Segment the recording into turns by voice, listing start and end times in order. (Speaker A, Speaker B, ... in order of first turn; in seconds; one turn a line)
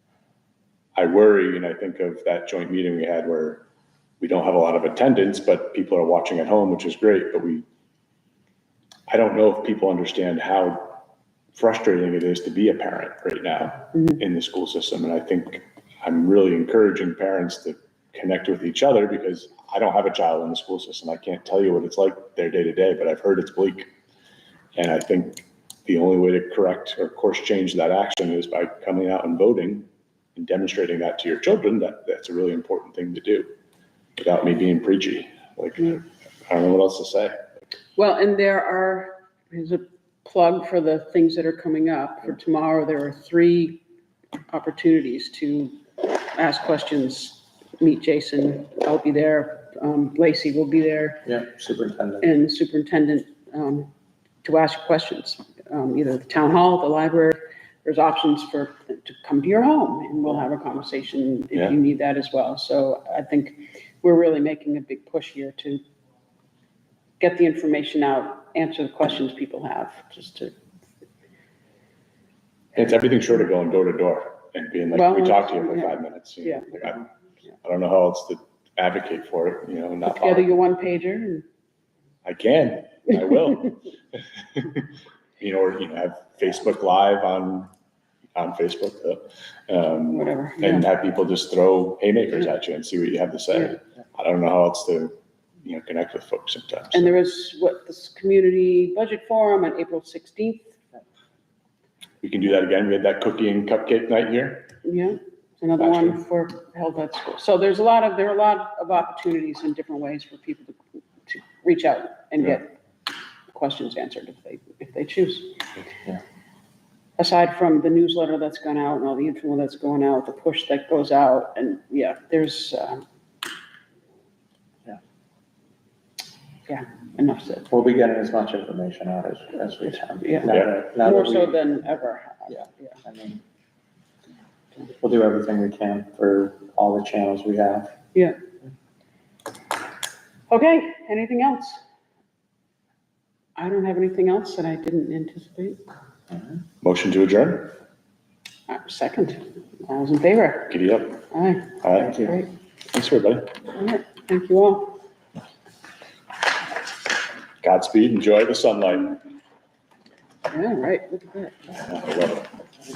Speaker A: 0.9-3.6
Speaker A: 4.2-7.6
Speaker A: 9.1-23.9
Speaker A: 24.8-33.5
Speaker A: 34.2-37.4
Speaker B: 38.0-43.8
Speaker B: 44.5-51.3
Speaker C: 51.3-52.3
Speaker B: 52.2-53.9
Speaker B: 54.4-65.8
Speaker B: 67.2-70.5
Speaker A: 72.7-77.1
Speaker B: 74.9-76.8
Speaker A: 77.6-80.5
Speaker B: 80.0-81.4
Speaker A: 82.2-84.9
Speaker A: 85.4-87.7
Speaker A: 88.3-97.2
Speaker B: 90.1-90.8
Speaker B: 96.9-100.7
Speaker A: 102.2-104.7
Speaker B: 104.8-112.8
Speaker A: 105.8-106.2
Speaker B: 113.5-115.6
Speaker B: 117.2-123.0
Speaker B: 126.7-127.7
Speaker C: 127.7-131.6
Speaker B: 130.2-132.6
Speaker C: 132.5-133.4
Speaker C: 135.0-137.9
Speaker B: 140.5-141.8
Speaker B: 143.6-145.8
Speaker A: 146.8-147.8
Speaker B: 148.7-152.5
Speaker A: 150.7-151.2
Speaker A: 151.8-152.3
Speaker A: 152.9-153.6
Speaker B: 153.7-155.0
Speaker A: 157.6-159.2
Speaker B: 160.5-161.8
Speaker A: 161.7-162.5